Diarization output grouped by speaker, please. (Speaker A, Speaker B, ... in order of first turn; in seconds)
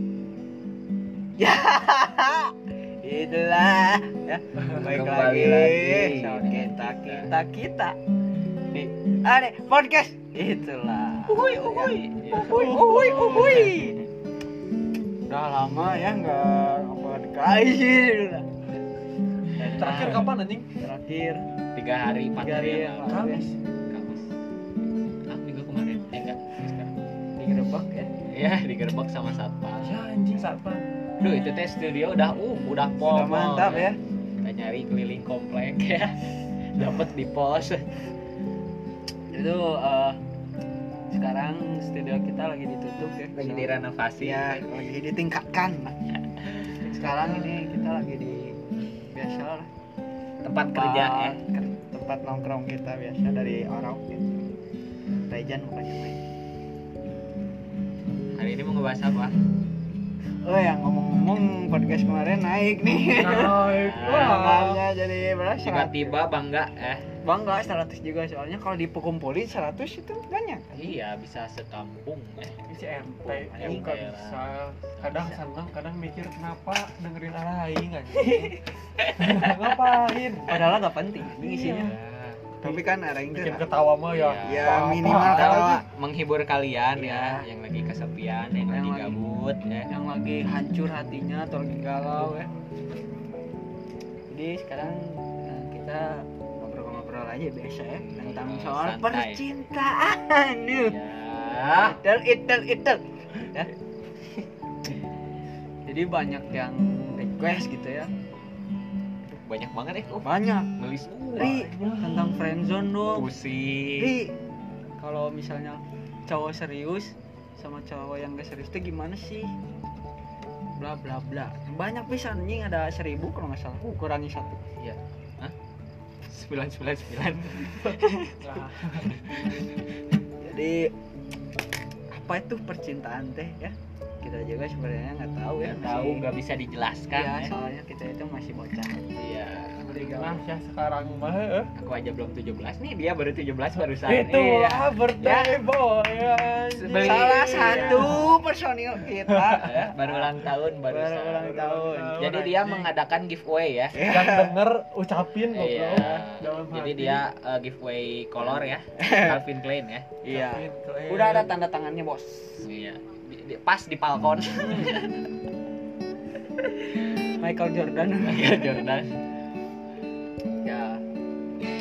Speaker A: 1.4-8.0, 8.7-14.0, 15.3-18.6, 19.6-20.2, 20.8-21.4, 22.4-23.4, 27.4-28.1, 33.0-34.0, 39.3-40.2, 41.1-48.6, 49.1-49.7, 50.6-54.3, 55.2-56.2, 60.4-66.2, 67.2-70.9, 73.2-74.0, 75.0-75.4, 78.2-78.6, 80.5-81.9, 82.6-83.6, 84.4-85.8, 86.9-87.4, 88.7-89.2, 89.9-92.5, 94.3-101.0, 101.8-103.7, 105.8-108.1, 110.2-110.7, 111.3-113.3, 114.0-114.3, 115.0-119.5, 120.7-124.6, 127.5-128.0, 129.3-129.7, 130.4-130.9, 132.1-136.3, 137.1-139.1, 139.9-140.4, 144.3-145.5, 146.8-152.3, 153.9-154.5, 155.9-156.2, 158.5-159.4, 160.2-162.7, 164.6-165.1, 166.6-168.9
Speaker B: 4.6-5.0, 12.3-13.6, 19.6-20.7, 23.0-23.6, 29.8-30.8, 63.2-64.8, 72.7-81.9, 82.6-85.8, 111.3-112.4, 128.4-129.2, 139.8-141.7, 144.0-148.3, 149.2-149.7, 151.4-152.9, 154.0-157.2, 160.3-161.5
Speaker C: 4.8-7.3, 11.3-14.1, 19.6-20.3, 21.7-23.4, 23.9-24.3, 25.3-26.9, 28.1-30.0, 31.2-38.0, 43.3-44.6, 47.0-47.3, 50.4-51.4, 58.3-59.4, 63.5-64.5, 65.6-67.1, 70.7-72.6, 73.5-74.4, 79.0-79.4, 81.7-82.5, 84.1-89.9, 97.9-99.4, 100.8-102.0, 109.3-111.5, 113.1-114.1, 124.8-125.5, 126.3-128.4, 135.6-137.5, 139.2-139.8, 141.8-144.7, 146.9-148.3, 149.6-151.6, 152.2-154.1, 155.5-160.2, 162.6-165.2, 168.2-169.2, 170.6-171.0